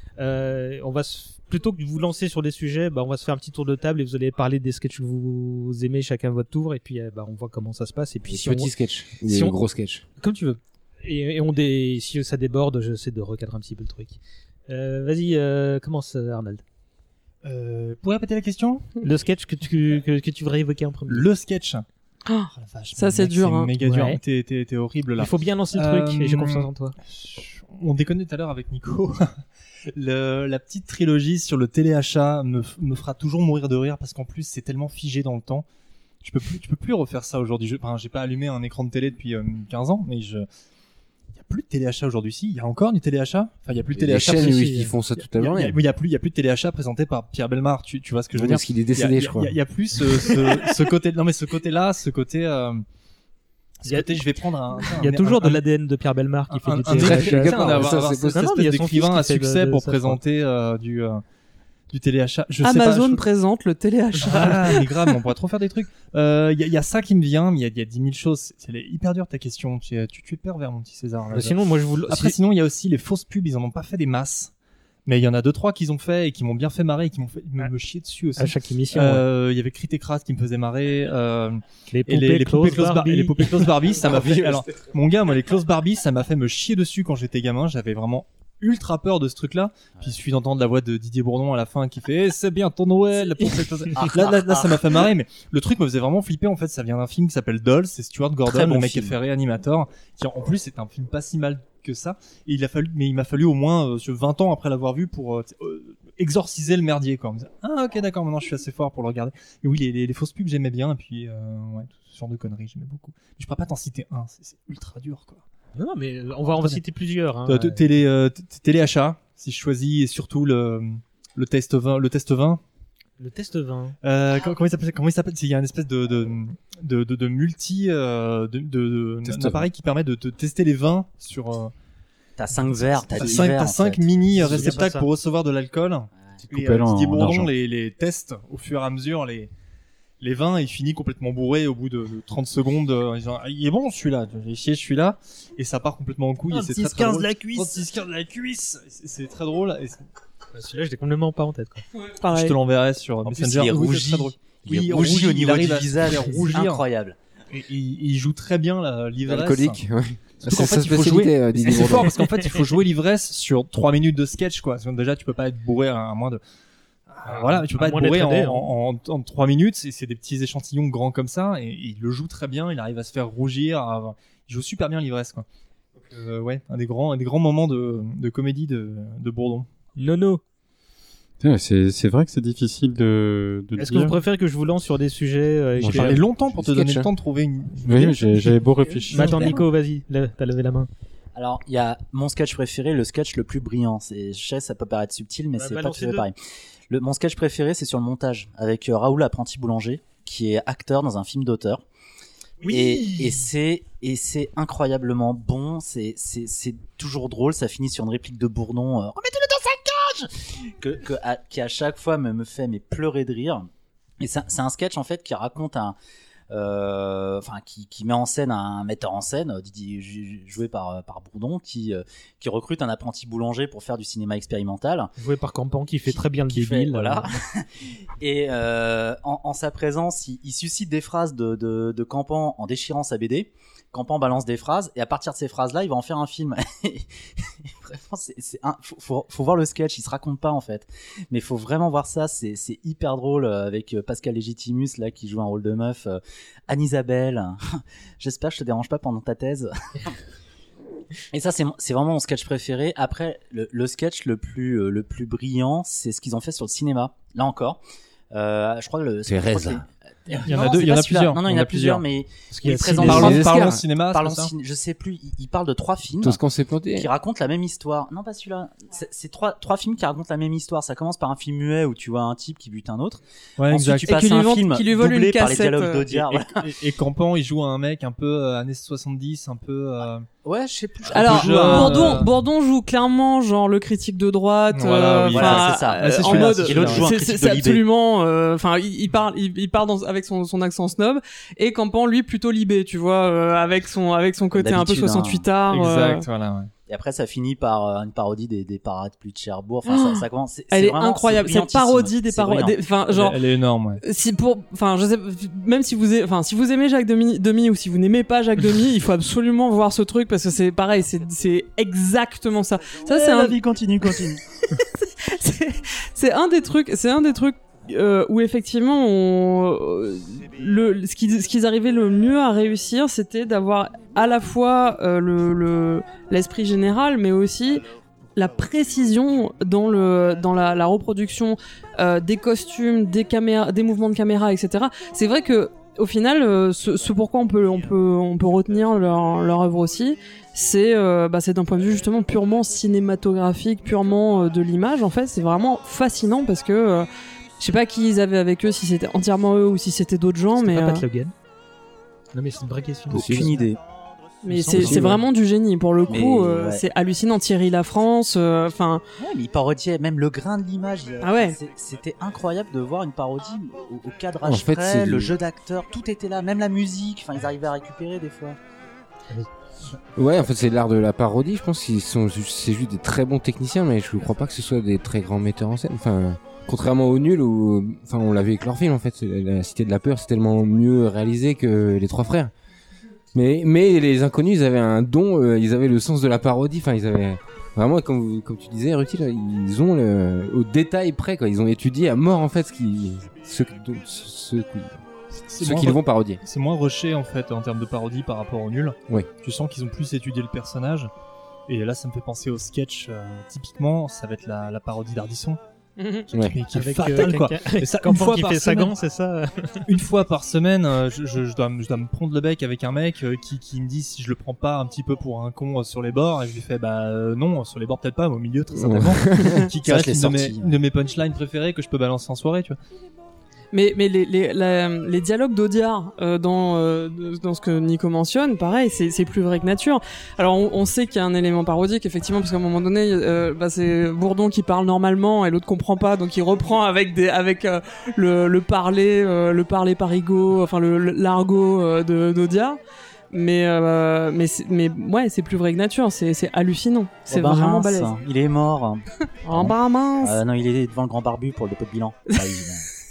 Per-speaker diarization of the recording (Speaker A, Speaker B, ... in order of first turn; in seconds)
Speaker A: 0.2-8.7, 9.2-9.6, 10.2-16.6, 19.0-21.3, 23.8-24.2, 25.2-27.0, 44.4-44.9, 53.9-54.3, 54.9-60.2, 71.3-72.4, 78.4-79.2, 81.9-83.7, 115.8-117.8, 123.2-124.0, 134.4-135.1, 146.5-147.8, 150.6-151.8, 167.2-168.7, 180.0-180.4, 183.8-186.2, 189.1-190.9, 195.6-196.3, 202.6-203.4, 225.2-227.3, 262.6-262.9, 350.6-351.3, 352.3-353.6, 354.5-355.2, 406.7-409.8
Speaker B: 8.3-10.0, 44.0-45.8, 48.3-49.6, 56.9-58.5, 84.0-84.5, 159.2-162.2, 185.8-187.1, 259.3-259.8, 263.0-263.8, 266.2-267.1, 353.1-353.5, 354.7-355.2, 364.4-365.3, 370.2-382.5, 383.3-395.0, 395.6-396.4, 406.3-406.6, 418.7-419.7
Speaker C: 17.4-18.9, 21.1-21.9, 22.5-35.6, 36.2-40.5, 41.4-52.8, 53.8-55.6, 56.5-61.2, 61.9-63.2, 64.2-74.5, 75.1-115.4, 117.5-122.6, 124.0-131.7, 133.2-139.5, 140.2-150.1, 152.3-156.8, 157.5-159.8, 160.4-166.4, 167.1-175.5, 176.1-179.7, 185.8-188.6, 260.4-262.0, 262.6-264.5, 273.6-274.2, 276.1-280.3, 281.1-282.3, 284.7-287.1, 295.7-296.7, 303.1-304.0, 395.3-401.1, 401.7-405.6, 406.4-408.9, 409.9-422.8
Speaker D: 22.3-23.7, 62.6-64.9, 152.1-152.6, 274.1-276.1, 281.1-296.2, 299.9-303.4, 304.0-313.6, 314.7-347.1, 347.6-351.1, 354.4-359.0, 361.2-361.6, 406.0-406.3, 423.7-442.8, 443.3-448.1, 449.4-450.4
Speaker E: 94.0-95.0, 98.5-99.2, 132.4-134.8, 153.2-157.2, 191.3-196.4, 196.9-201.8, 202.7-213.7, 214.2-216.0, 216.5-225.1, 226.1-237.1, 237.6-250.0, 251.3-257.8, 258.3-263.6, 264.1-266.4, 266.9-276.7, 280.4-282.3, 285.3-287.8, 294.5-295.4, 296.9-302.8, 313.1-314.4, 353.1-353.8, 356.1-356.9, 359.2-368.6, 419.8-420.8, 447.3-452.9
Speaker F: 129.3-129.6, 136.4-137.5, 181.4-184.2, 187.8-189.6